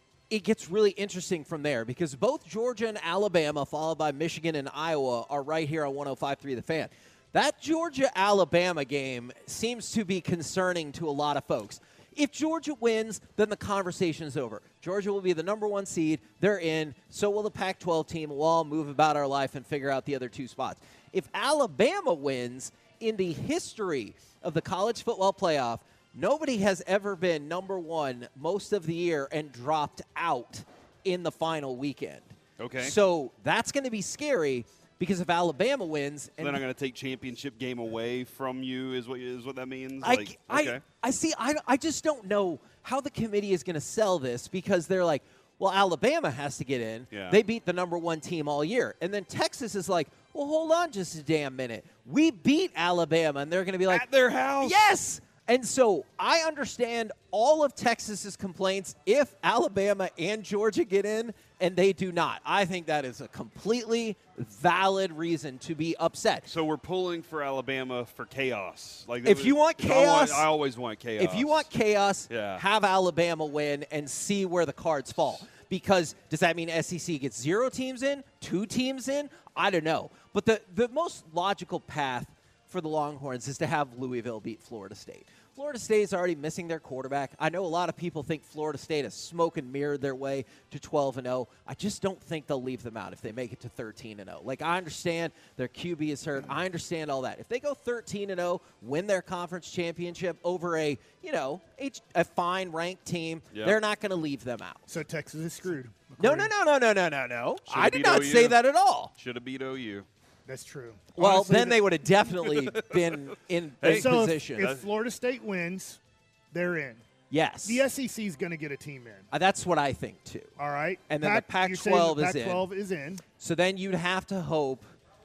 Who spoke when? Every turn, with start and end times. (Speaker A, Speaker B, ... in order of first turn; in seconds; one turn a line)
Speaker A: 0.3-36.6
Speaker B: 32.6-32.9
Speaker B: 36.4-40.8
Speaker A: 40.0-54.0
Speaker B: 47.1-47.4
Speaker B: 53.9-54.9
Speaker A: 54.6-66.5
Speaker B: 66.5-71.7
Speaker A: 69.2-70.5
Speaker A: 71.2-104.9
Speaker B: 72.3-72.6
Speaker C: 104.9-106.5
Speaker A: 106.2-109.1
Speaker B: 107.7-108.6
Speaker B: 109.1-110.1
Speaker C: 110.5-111.8
Speaker A: 111.2-114.7
Speaker B: 112.5-113.0
Speaker B: 113.8-114.8
Speaker C: 113.9-116.0
Speaker C: 116.5-117.0
Speaker A: 117.3-117.8
Speaker C: 117.6-119.3
Speaker A: 119.3-120.5
Speaker C: 120.6-123.2
Speaker A: 121.1-122.7
Speaker A: 123.4-124.9